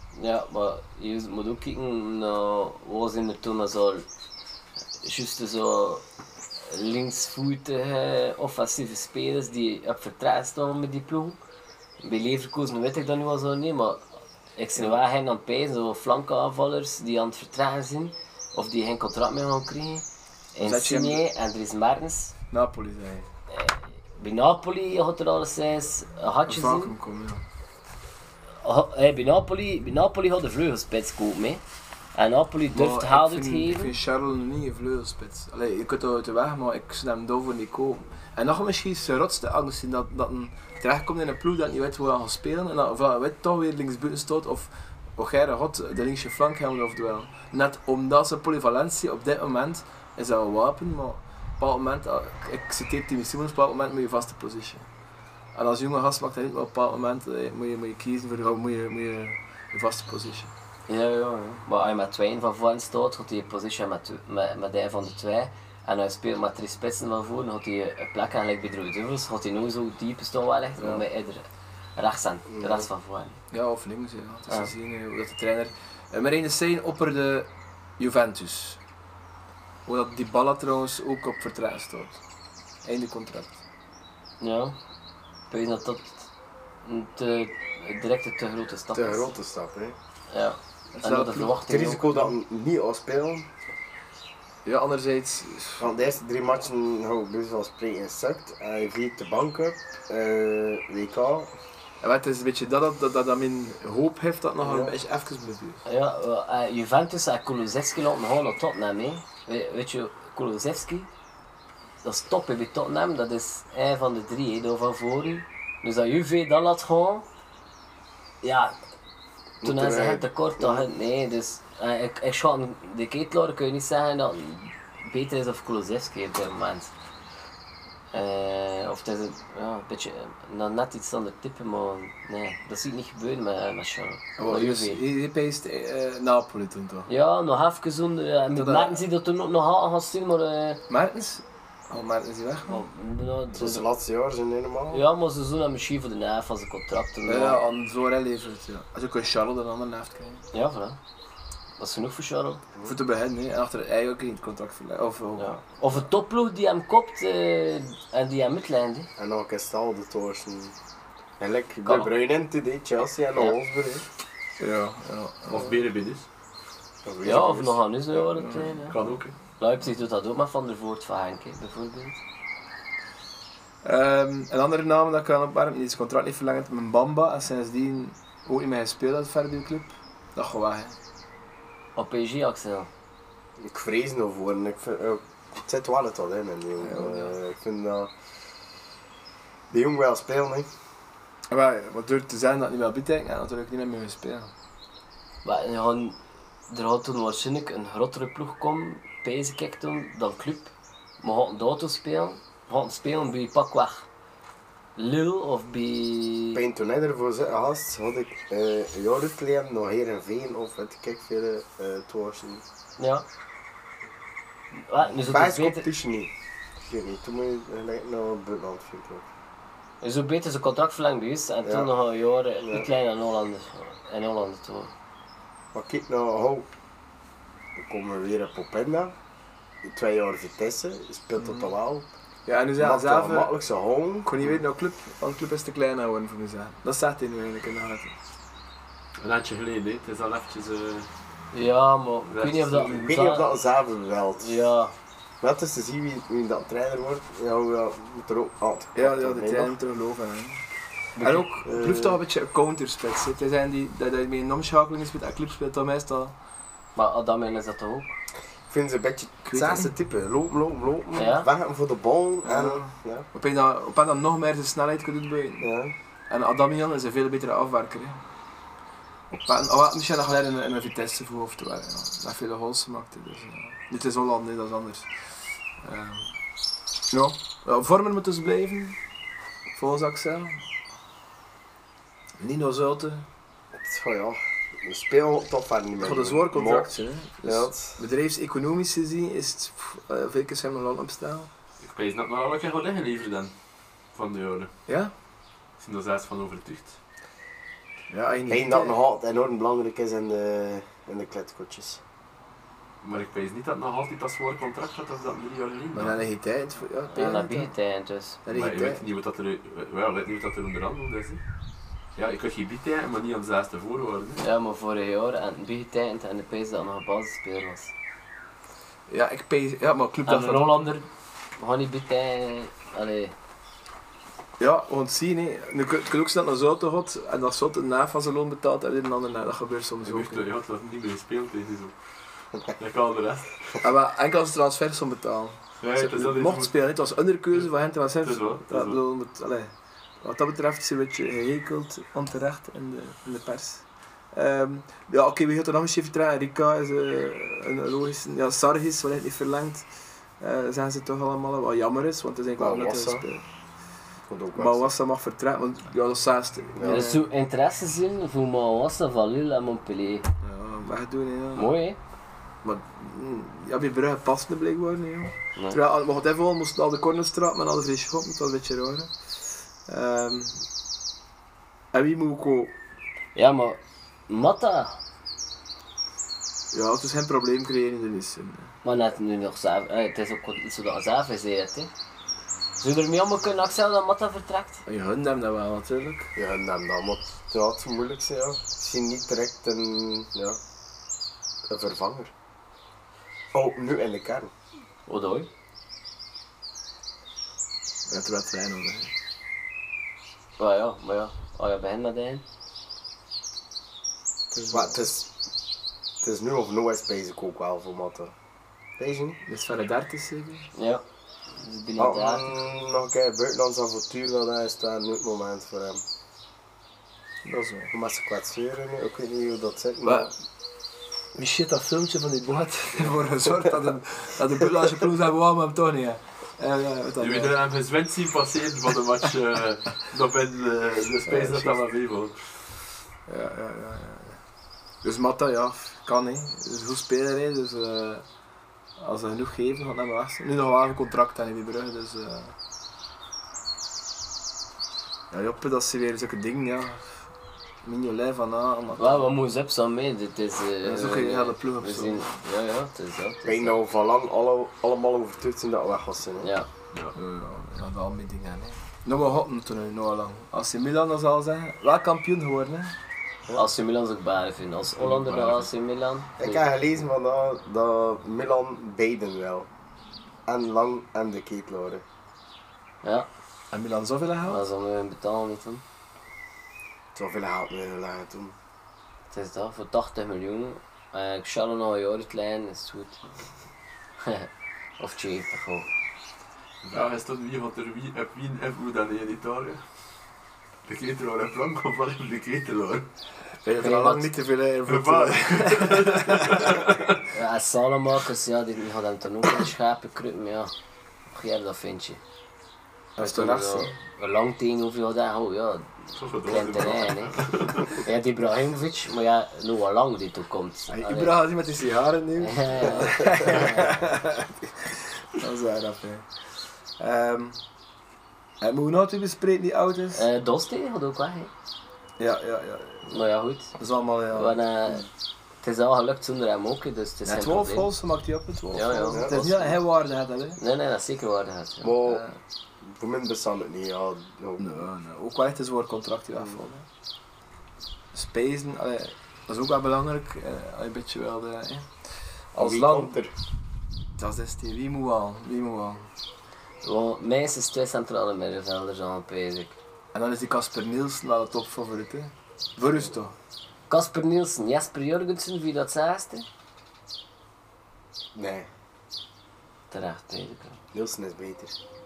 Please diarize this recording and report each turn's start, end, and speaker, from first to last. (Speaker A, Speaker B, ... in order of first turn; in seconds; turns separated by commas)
Speaker A: 0.1-4.0, Speaker A: 5.0-6.0, Speaker A: 6.7-11.4, Speaker A: 12.0-14.0, Speaker A: 14.6-22.3, Speaker B: 20.6-21.2, Speaker B: 22.5-23.3, Speaker A: 23.5-26.9, Speaker B: 26.5-27.4, Speaker A: 28.6-31.6, Speaker A: 32.1-33.9, Speaker B: 32.7-54.9, Speaker B: 55.5-60.5, Speaker A: 60.9-71.4, Speaker B: 70.8-71.0, Speaker A: 72.0-73.4, Speaker C: 72.5-72.9, Speaker B: 73.5-78.8, Speaker B: 79.8-82.2, Speaker B: 82.8-83.6, Speaker A: 84.4-84.8, Speaker A: 85.5-86.3, Speaker A: 86.8-89.3, Speaker C: 88.9-90.0, Speaker A: 90.3-92.1, Speaker B: 90.9-91.6, Speaker C: 91.7-93.5, Speaker B: 94.7-95.8, Speaker C: 95.8-101.5, Speaker B: 102.0-105.8, Speaker C: 104.6-104.9, Speaker A: 105.8-111.1, Speaker A: 112.0-117.2, Speaker A: 118.4-118.8, Speaker C: 119.6-120.8, Speaker A: 119.6-126.9, Speaker A: 128.1-135.0, Speaker B: 134.4-137.1, Speaker A: 137.1-140.8, Speaker B: 138.5-139.0, Speaker B: 140.9-142.8, Speaker A: 142.7-143.8, Speaker C: 143.5-145.0, Speaker A: 144.9-147.6, Speaker B: 147.3-150.5, Speaker A: 150.5-151.0, Speaker A: 151.8-152.6, Speaker B: 152.8-155.6, Speaker A: 155.4-159.1, Speaker C: 159.2-160.7, Speaker C: 161.4-164.1, Speaker A: 161.8-162.1, Speaker B: 164.6-165.8, Speaker D: 165.5-166.3, Speaker C: 167.0-167.8, Speaker A: 167.2-168.9, Speaker B: 168.3-168.8, Speaker D: 168.9-169.3, Speaker A: 169.6-172.2, Speaker B: 173.8-180.9, Speaker A: 181.9-182.9, Speaker C: 183.6-188.1, Speaker B: 186.8-187.3, Speaker C: 189.7-190.7, Speaker B: 191.5-194.5, Speaker A: 195.4-204.1, Speaker A: 205.0-206.6, Speaker C: 206.5-212.6, Speaker A: 213.0-213.2, Speaker A: 214.7-215.9, Speaker C: 215.0-216.3, Speaker C: 216.9-219.2, Speaker A: 220.0-224.9, Speaker C: 221.6-221.9, Speaker C: 225.7-226.7, Speaker C: 227.8-229.1, Speaker C: 229.8-232.1, Speaker B: 231.4-231.7, Speaker B: 232.4-233.5, Speaker C: 232.8-234.6, Speaker B: 234.2-238.1, Speaker D: 239.2-241.1, Speaker A: 241.5-243.5, Speaker D: 242.3-242.9, Speaker C: 242.8-244.5, Speaker A: 244.4-244.9, Speaker C: 245.4-249.8, Speaker B: 248.9-250.6, Speaker A: 251.2-251.5, Speaker B: 251.2-256.3, Speaker C: 251.6-252.2, Speaker A: 256.9-258.2, Speaker C: 258.7-263.2, Speaker B: 259.4-259.9, Speaker A: 261.1-261.5, Speaker B: 262.4-265.7, Speaker C: 265.6-265.9, Speaker B: 266.3-268.2, Speaker B: 269.3-275.3, Speaker B: 275.8-276.3, Speaker B: 277.1-279.0, Speaker B: 279.7-280.6, Speaker B: 282.4-283.2, Speaker C: 283.8-286.9, Speaker B: 286.0-291.5, Speaker C: 287.4-288.0, Speaker D: 291.8-293.6, Speaker D: 294.1-294.7, Speaker B: 294.9-295.1, Speaker D: 295.8-297.0, Speaker B: 298.1-298.9, Speaker C: 298.5-302.0, Speaker D: 303.0-306.1, Speaker B: 305.9-307.7, Speaker A: 307.1-308.4, Speaker B: 308.4-309.0, Speaker D: 308.5-311.4, Speaker D: 312.1-314.4, Speaker A: 314.4-317.9, Speaker B: 319.1-320.8, Speaker A: 320.2-323.3, Speaker B: 324.6-330.4, Speaker D: 330.0-331.9, Speaker D: 332.6-333.8, Speaker B: 333.8-339.7, Speaker D: 335.8-336.7, Speaker D: 338.2-339.0, Speaker B: 340.2-349.9, Speaker B: 350.4-353.4, Speaker C: 352.6-353.2, Speaker C: 354.3-354.9, Speaker B: 354.5-357.2, Speaker C: 356.7-357.1, Speaker A: 356.8-360.3, Speaker B: 360.4-361.8, Speaker A: 361.5-362.0, Speaker B: 362.6-370.6, Speaker B: 371.9-372.7, Speaker A: 373.3-375.0, Speaker B: 376.7-378.7, Speaker A: 378.8-381.9, Speaker A: 382.8-384.8, Speaker B: 384.9-386.3, Speaker C: 386.4-390.6, Speaker C: 391.7-392.3, Speaker C: 393.5-394.5, Speaker A: 395.1-395.5, Speaker B: 398.1-399.1, Speaker A: 400.6-402.4, Speaker B: 404.5-404.9, Speaker C: 404.7-405.3, Speaker C: 406.2-408.3, Speaker C: 409.0-409.4, Speaker B: 409.4-410.7, Speaker A: 410.7-411.0, Speaker A: 411.6-412.5, Speaker C: 412.0-416.0, Speaker B: 417.4-417.9, Speaker C: 417.9-420.3, Speaker B: 420.0-420.3, Speaker B: 421.3-427.6, Speaker D: 427.2-432.6, Speaker B: 431.3-431.7, Speaker B: 433.3-434.4, Speaker B: 435.0-438.2, Speaker B: 439.0-442.5, Speaker B: 445.3-447.2, Speaker B: 447.8-449.2, Speaker A: 449.0-453.8, Speaker B: 450.8-452.4, Speaker C: 453.4-456.5, Speaker A: 456.4-456.7, Speaker B: 457.1-462.9, Speaker A: 463.5-466.6, Speaker D: 465.0-465.6, Speaker C: 466.4-469.7, Speaker C: 470.4-472.0, Speaker A: 473.0-473.3, Speaker B: 473.7-474.6, Speaker A: 474.4-475.8, Speaker C: 477.1-478.6, Speaker A: 479.3-483.2, Speaker A: 484.2-485.9, Speaker D: 486.8-489.8, Speaker D: 490.9-493.1, Speaker B: 493.6-497.0, Speaker A: 493.8-494.3, Speaker D: 494.9-497.2, Speaker A: 497.3-500.7, Speaker A: 501.3-502.2, Speaker B: 503.2-503.9, Speaker A: 503.2-511.3, Speaker D: 506.1-508.0, Speaker B: 510.9-517.6, Speaker A: 512.4-514.0, Speaker B: 518.6-520.2, Speaker A: 520.1-521.5, Speaker B: 522.2-523.2, Speaker A: 523.1-523.8, Speaker B: 523.8-524.6, Speaker A: 524.3-525.1, Speaker A: 525.6-527.9, Speaker B: 527.2-530.6, Speaker A: 528.7-529.7, Speaker C: 529.1-529.4, Speaker A: 530.6-531.9, Speaker C: 531.8-532.2, Speaker B: 532.0-532.4, Speaker C: 532.8-534.7, Speaker B: 534.6-536.8, Speaker B: 538.1-541.9, Speaker B: 542.5-543.1, Speaker C: 542.6-543.3, Speaker B: 544.2-546.1, Speaker A: 546.8-549.8, Speaker B: 550.1-553.3, Speaker A: 553.9-556.5, Speaker C: 558.3-558.7, Speaker A: 559.9-560.8, Speaker C: 560.9-561.8